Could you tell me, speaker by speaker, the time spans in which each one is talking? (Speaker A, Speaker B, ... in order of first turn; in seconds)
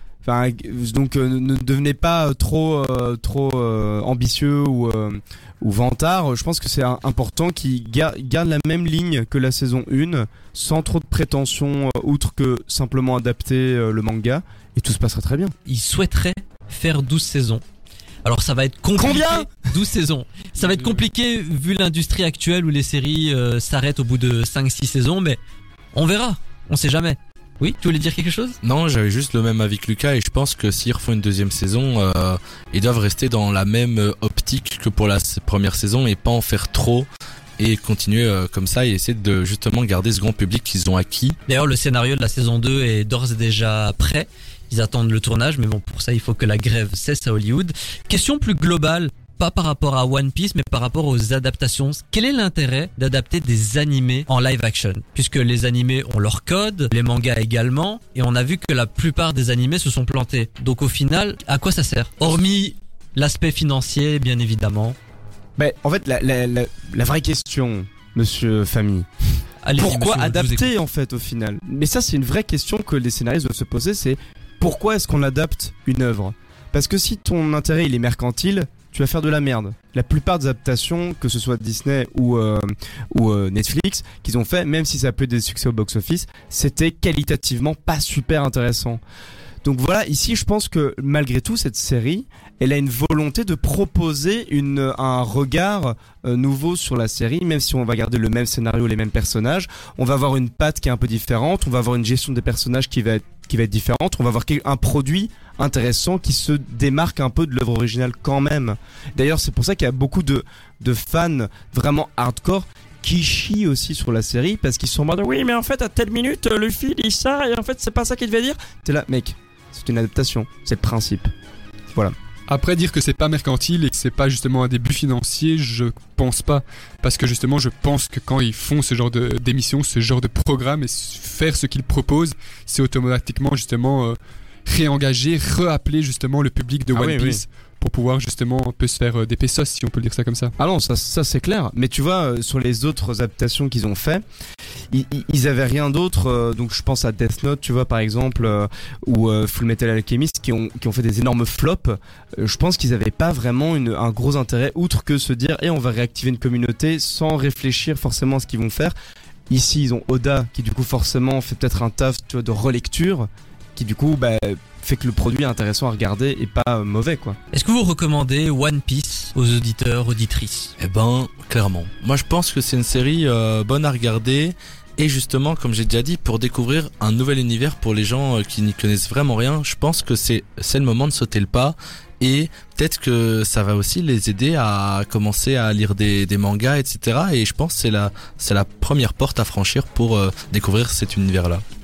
Speaker A: 0.2-15.6, 19.0-19.5, 65.6-69.1, 69.8-89.0, 89.6-121.3, 136.9-137.4, 140.6-144.2, 144.9-158.9, 159.5-167.4
Speaker B: 15.7-17.6, 18.2-25.4, 25.9-28.6, 41.5-65.0, 69.6-70.7, 167.5-170.7
Speaker C: 28.6-37.1, 37.6-41.4, 170.8-191.6
Speaker D: 122.5-140.5